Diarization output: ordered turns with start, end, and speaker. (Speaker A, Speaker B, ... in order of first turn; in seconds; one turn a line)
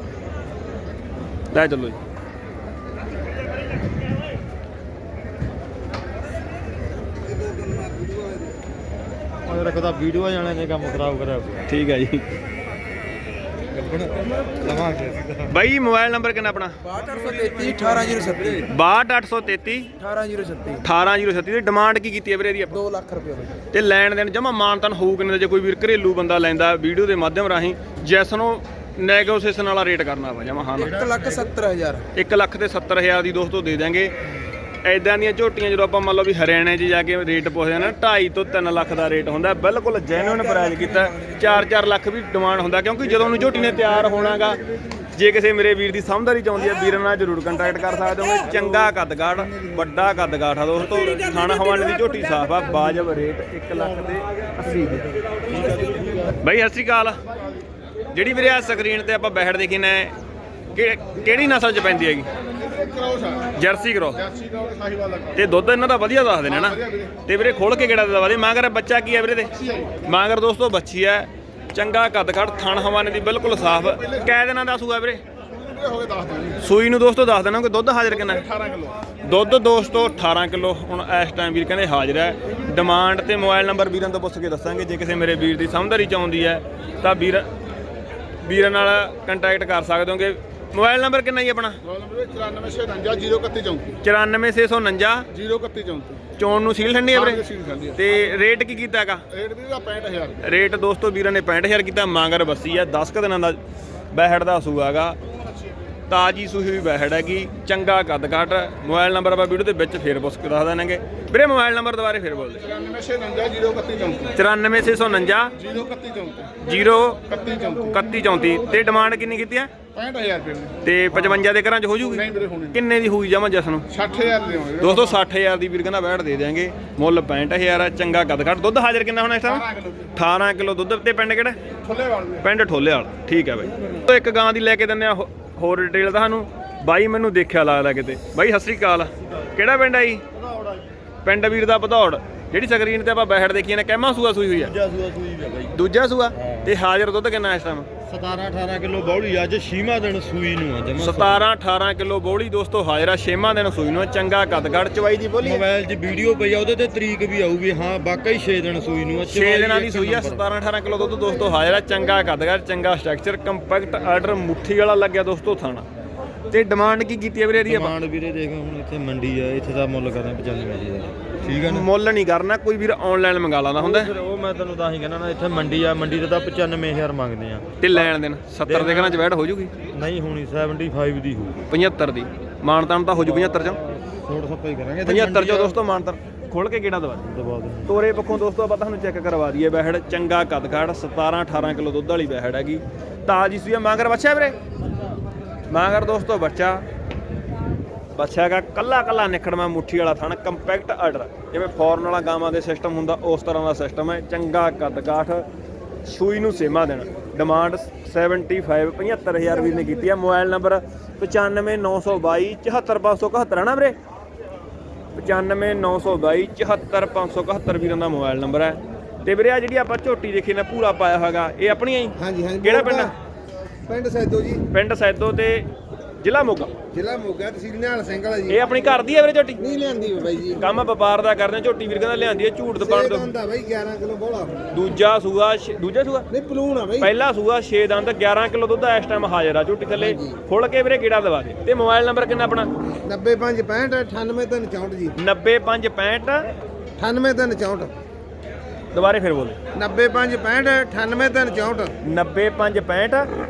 Speaker A: 1.5-2.0
Speaker B: 9.5-11.6
Speaker A: 11.7-12.2
Speaker B: 13.8-15.4
Speaker A: 15.4-16.7
Speaker B: 16.9-18.6
Speaker C: 16.9-18.6
Speaker A: 18.6-19.9
Speaker B: 20.0-20.8
Speaker C: 20.0-20.8
Speaker A: 20.8-22.8
Speaker B: 22.9-23.4
Speaker C: 22.9-23.4
Speaker A: 23.7-31.2
Speaker B: 30.8-32.0
Speaker C: 31.0-31.9
Speaker A: 32.1-34.1
Speaker A: 34.8-44.6
Speaker C: 40.3-41.2
Speaker A: 45.1-55.0
Speaker A: 56.4-57.2
Speaker A: 58.1-60.1
Speaker A: 60.7-62.3
Speaker D: 62.7-63.5
Speaker A: 63.5-64.2
Speaker D: 64.2-65.3
Speaker A: 65.3-69.5
Speaker D: 66.7-67.1
Speaker A: 70.0-75.2
Speaker D: 75.7-76.5
Speaker A: 76.6-78.4
Speaker D: 78.3-79.0
Speaker A: 79.2-87.5
Speaker A: 88.4-91.8
Speaker D: 91.8-94.0
Speaker A: 94.0-95.3
Speaker D: 95.3-96.2
Speaker A: 96.4-99.2
Speaker D: 97.1-98.0
Speaker D: 99.3-100.4
Speaker A: 100.4-103.6
Speaker A: 104.1-105.2
Speaker A: 106.1-112.7
Speaker D: 112.7-114.3
Speaker A: 114.3-115.5
Speaker D: 115.6-116.5
Speaker A: 116.6-119.7
Speaker D: 117.3-117.8
Speaker D: 119.9-120.8
Speaker A: 120.8-123.8
Speaker D: 122.0-122.8
Speaker D: 123.9-125.2
Speaker A: 124.8-131.6
Speaker D: 129.5-130.1
Speaker D: 131.9-132.3
Speaker A: 132.4-140.2
Speaker B: 140.5-140.8
Speaker A: 141.2-144.7
Speaker B: 144.6-145.7
Speaker A: 145.7-147.9
Speaker B: 148.1-151.4
Speaker A: 150.9-155.6
Speaker B: 155.4-160.4
Speaker A: 159.2-165.8
Speaker A: 166.5-167.9
Speaker B: 167.7-171.8
Speaker A: 171.4-174.1
Speaker B: 173.8-177.7
Speaker A: 177.8-179.7
Speaker B: 178.7-179.1
Speaker B: 179.9-181.6
Speaker A: 181.7-183.8
Speaker B: 183.9-185.7
Speaker A: 185.0-187.3
Speaker B: 187.3-187.9
Speaker A: 187.8-194.6
Speaker A: 195.7-196.8
Speaker A: 198.1-205.4
Speaker A: 206.1-213.9
Speaker A: 215.1-223.1
Speaker C: 222.2-223.1
Speaker C: 223.9-224.6
Speaker A: 224.7-225.7
Speaker A: 226.2-226.7
Speaker C: 226.9-228.6
Speaker A: 228.5-229.6
Speaker C: 229.6-230.6
Speaker A: 230.6-233.3
Speaker C: 232.7-234.7
Speaker A: 234.7-236.3
Speaker C: 236.3-237.1
Speaker A: 237.0-242.7
Speaker C: 239.9-240.4
Speaker C: 243.1-245.1
Speaker A: 245.2-246.4
Speaker C: 247.0-247.9
Speaker A: 248.9-249.6
Speaker C: 249.7-251.9
Speaker A: 252.0-253.2